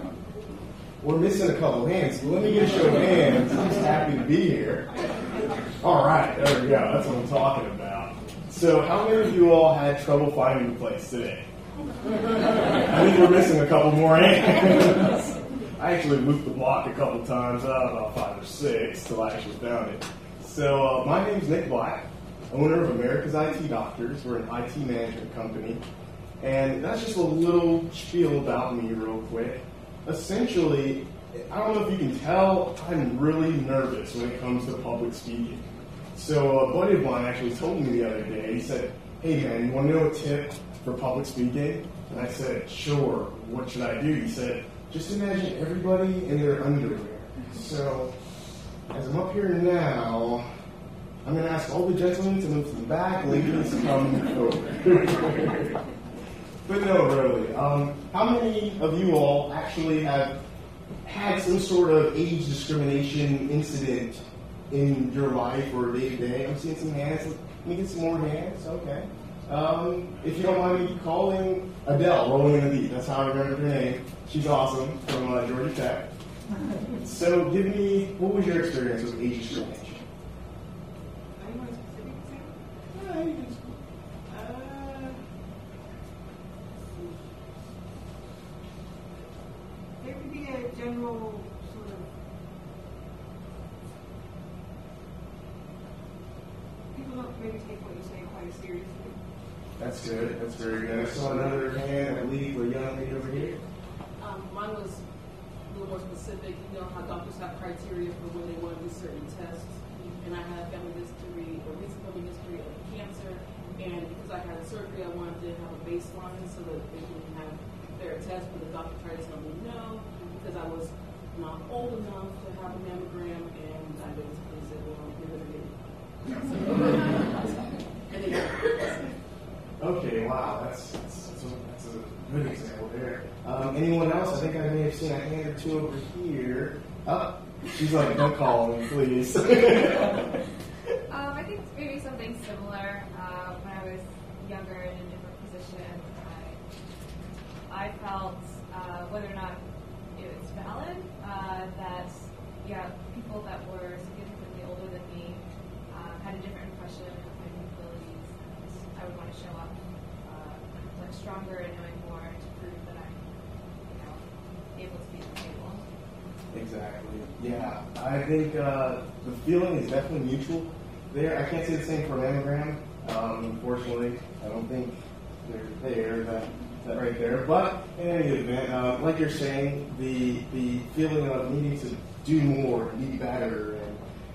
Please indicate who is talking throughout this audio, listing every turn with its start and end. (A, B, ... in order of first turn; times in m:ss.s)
0:01.0-0:04.9 A
0:05.8-0:11.5 A
0:12.3-0:25.8 A
0:26.4-0:35.6 A
0:36.1-0:48.2 A
0:48.9-0:50.5 A
0:51.2-0:55.8 A
0:56.6-1:00.4 A
1:01.0-1:16.1 A
1:16.8-1:20.0 A
1:21.4-1:23.2 B
1:23.1-1:23.5 A
1:24.3-1:25.2 B
1:26.7-1:27.2 B
1:30.0-1:32.1 B
1:36.9-1:39.2 B
1:39.8-1:43.6 A
1:43.2-1:43.5 C
1:44.2-1:45.0 C
1:45.7-2:09.1 C
2:09.8-2:20.4 A
2:21.1-2:26.6 D
2:27.7-2:29.6 D
2:30.1-2:43.2 D
2:43.8-2:44.2 D
2:44.7-2:45.8 D
2:46.5-3:04.0 A